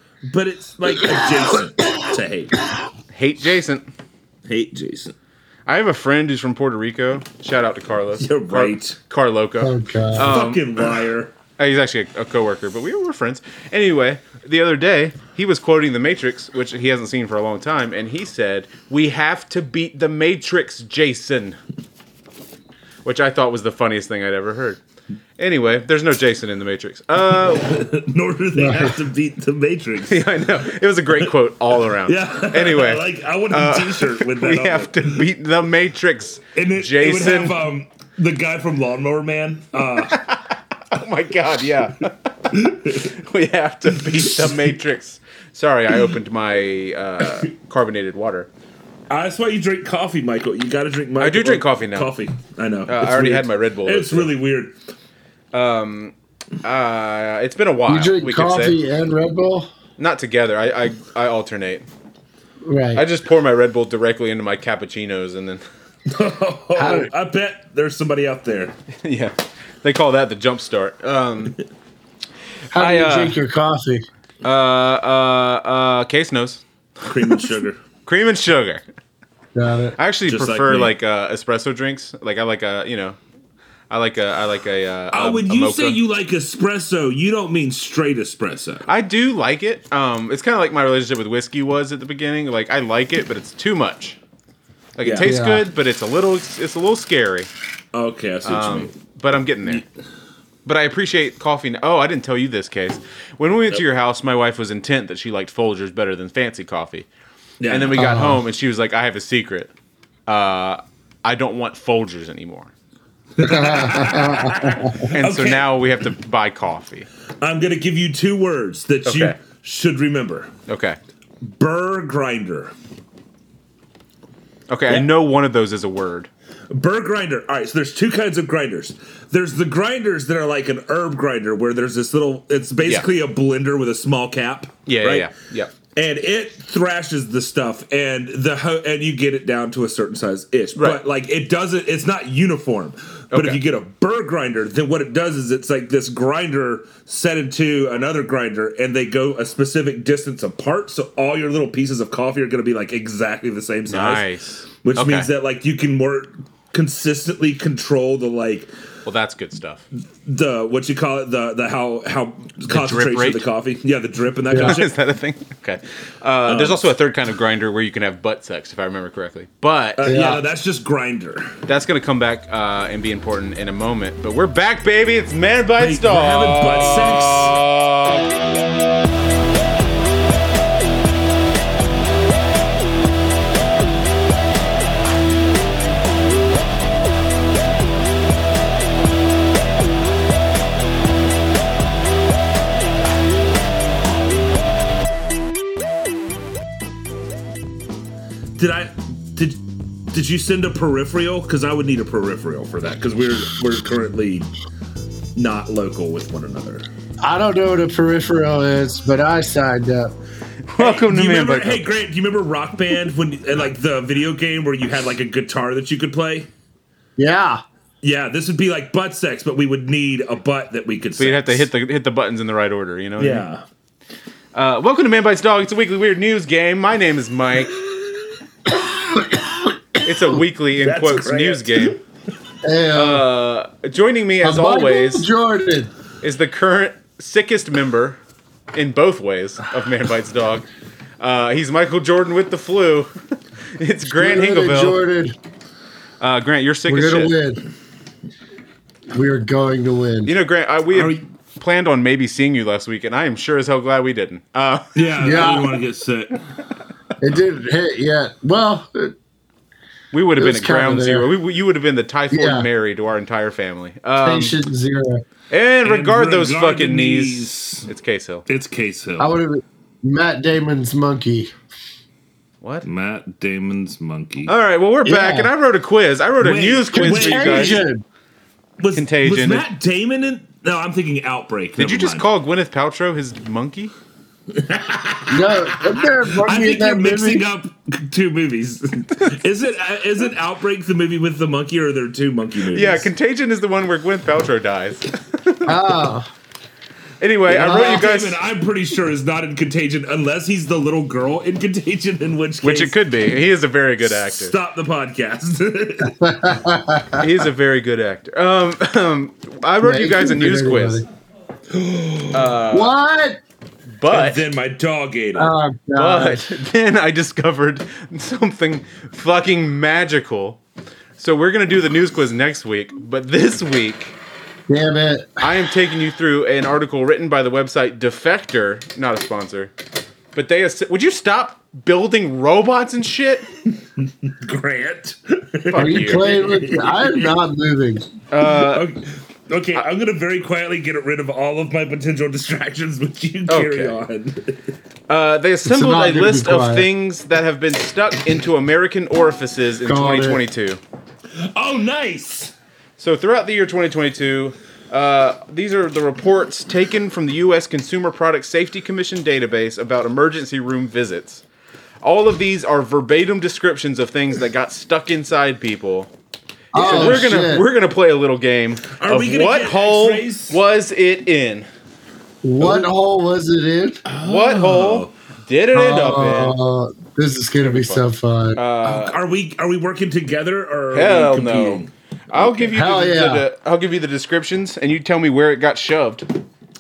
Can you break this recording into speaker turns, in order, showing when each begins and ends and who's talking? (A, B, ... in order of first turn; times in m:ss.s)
0:00.3-0:02.6 A
0:03.1-0:03.9 B
0:04.5-0:05.1 A
0:05.6-0:10.6 B
0:08.2-0:09.0 A
0:09.6-0:10.3 C
0:10.2-0:11.3 A
0:11.6-0:21.6 B
0:23.0-0:24.8 B
0:25.4-0:27.7 B
0:27.4-0:30.4 A
0:28.5-0:29.0 C
0:30.1-0:37.6 B
0:31.8-0:35.2 A
0:36.5-0:40.2 A
0:40.1-0:48.5 B
0:42.6-0:43.1 A
0:44.1-0:44.5 A
0:49.1-0:54.7 A
0:51.2-0:52.1 B
0:52.9-0:54.3 B
0:55.5-0:58.8 B
0:57.9-0:59.7 C
1:00.0-1:01.8 B
1:02.6-1:03.0 C
1:03.0-1:05.6 B
1:06.0-1:08.7 A
1:06.8-1:07.1 C
1:09.0-1:11.6 B
1:12.7-1:14.0 C
1:12.7-1:13.4 B
1:14.4-1:16.6 B
1:17.1-1:17.8 A
1:18.0-1:18.8 B
1:19.5-1:20.0 C
1:20.0-1:23.2 B
1:20.3-1:20.9 A
1:23.9-1:26.0 B
1:25.1-1:28.9 A
1:28.9-1:34.2 B
1:35.0-1:37.5 B
1:35.0-1:35.3 A
1:35.2-1:35.6 C
1:37.9-1:38.9 A
1:38.4-1:39.8 B
1:40.6-1:47.1 B
1:47.6-1:48.0 A
1:47.7-1:49.7 B
1:47.9-1:48.4 C
1:50.3-1:52.7 B
1:53.4-1:55.7 A
1:53.4-1:55.0 C
1:55.1-1:57.1 B
1:57.4-2:00.5 A
1:59.0-1:59.4 B
2:00.7-2:01.0 B
2:01.4-2:02.7 A
2:04.7-2:06.3 B
2:06.7-2:15.3 A
2:14.8-2:15.7 B
2:15.9-2:34.2 A
2:23.3-2:23.6 B
2:33.9-2:35.3 B
2:34.8-2:38.7 A
2:39.0-2:39.8 B
2:40.2-2:44.9 A
2:42.7-2:43.4 B
2:44.5-2:44.8 C
2:44.6-2:50.1 B
2:46.5-2:46.9 A
2:50.0-2:51.6 A
2:50.0-2:50.4 C
2:51.6-2:58.3 B
2:55.8-2:57.6 A
3:18.6-3:24.5 A
3:25.3-3:26.9 A
3:27.2-3:30.1 C
3:30.7-3:32.0 B
3:30.8-3:36.5 A
3:37.2-3:37.6 C
3:38.0-3:41.7 A
3:41.2-3:43.5 B
3:43.2-3:43.6 A
3:44.5-3:47.8 B
3:49.1-3:49.7 C
3:50.0-3:52.0 B
3:50.8-3:52.0 A
3:52.6-3:53.2 C
3:52.9-3:55.3 B
3:54.4-3:55.9 C
3:56.2-3:58.2 B
3:58.7-4:00.6 B
4:01.2-4:03.1 B
4:03.8-4:05.0 B
4:04.1-4:05.4 C
4:06.2-4:07.4 B
4:06.9-4:07.6 C
4:09.1-4:10.3 C
4:10.2-4:15.0 B
4:10.9-4:11.2 A
4:14.9-4:16.4 A
4:15.2-4:15.8 C
4:17.2-4:19.1 C
4:20.1-4:24.6 B
4:20.4-4:21.3 C
4:22.3-4:22.7 C
4:24.2-4:25.2 C
4:25.5-4:28.4 B
4:25.8-4:27.9 A
4:28.5-4:29.3 A
4:29.2-4:31.5 C
4:32.6-4:32.9 B
4:32.8-4:34.5 A
4:34.5-4:37.8 B
4:35.0-4:35.5 C
4:36.4-4:37.8 A
4:36.9-4:38.0 C
4:38.8-4:42.3 A
4:38.9-4:39.6 B
4:41.8-4:43.9 B
4:44.5-4:53.1 A
4:45.3-4:47.5 C
4:52.7-4:55.8 B
4:55.6-4:56.3 C
4:57.2-4:58.4 B
4:57.5-5:03.0 A
4:57.6-4:58.0 C
5:02.6-5:04.5 B
5:04.0-5:06.2 A
5:06.1-5:07.3 C
5:07.2-5:11.0 B
5:09.8-5:11.0 C
5:11.7-5:12.6 A
5:12.3-5:12.9 B
5:12.7-5:13.4 C
5:14.0-5:14.4 B
5:14.1-5:15.5 A
5:15.4-5:16.4 C
5:15.9-5:20.6 B
5:21.2-5:24.2 B
5:24.7-5:25.4 C
5:25.4-5:29.7 B
5:30.3-5:33.4 B
5:34.0-5:37.3 A
5:35.7-5:36.3 B
5:35.8-5:38.1 C
5:38.3-5:38.8 B
5:38.5-5:44.6 A
5:43.5-5:44.0 B
5:45.1-5:50.8 B
5:45.6-5:46.9 C
5:49.8-5:50.4 C
5:51.4-5:52.5 A
5:53.0-6:01.4 B
6:02.0-6:06.1 B
6:06.7-6:07.6 C
6:06.8-6:07.3 A
6:06.8-6:11.7 B
6:08.9-6:10.6 A
6:12.4-6:14.0 C
6:12.6-6:12.9 A
6:14.0-6:15.1 A
6:14.2-6:16.6 B
6:15.7-6:18.6 C
6:17.6-6:18.0 B
6:18.5-6:19.2 B
6:18.8-6:21.9 A
6:20.9-6:26.3 B
6:22.4-6:23.4 C